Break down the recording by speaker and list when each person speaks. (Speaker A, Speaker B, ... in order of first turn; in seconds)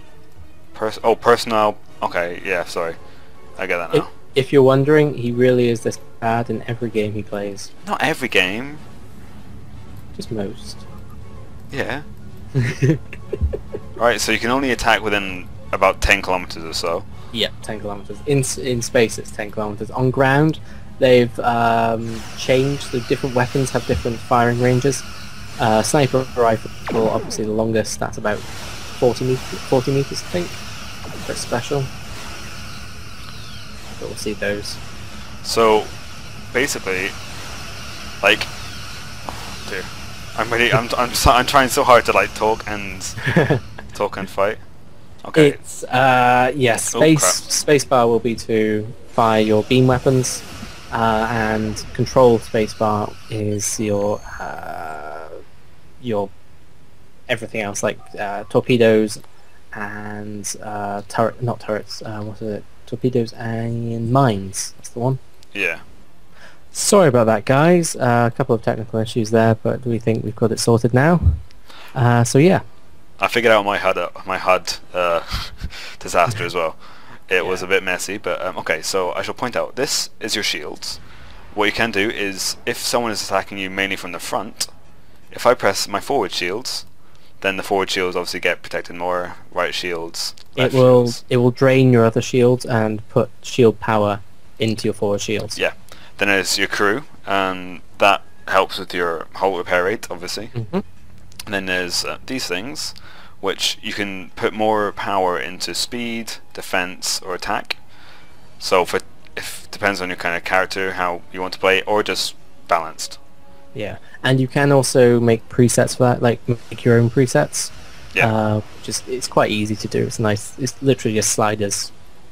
Speaker A: 0.7-3.0, 3.6-4.1, 7.8-8.8, 11.7-12.1, 14.0-17.1, 35.4-35.9, 36.5-37.1, 38.2-38.5, 39.5-43.2, 43.9-44.6, 45.2-45.6, 46.9-47.4, 65.5-65.8, 73.2-81.0, 81.5-84.7, 85.3-86.8, 87.4-91.2, 95.6-100.5, 101.5-107.8, 108.6-113.2
Speaker B: 3.9-7.7, 10.2-10.8, 12.5-13.0, 17.3-25.1, 25.6-30.6, 31.2-31.9, 34.0-34.8, 43.2-43.6, 45.3-55.4, 56.0-56.3, 57.3-59.2, 59.7-65.2, 66.7-71.4, 71.9-72.6, 90.6-95.6, 100.5-100.8, 113.8-121.9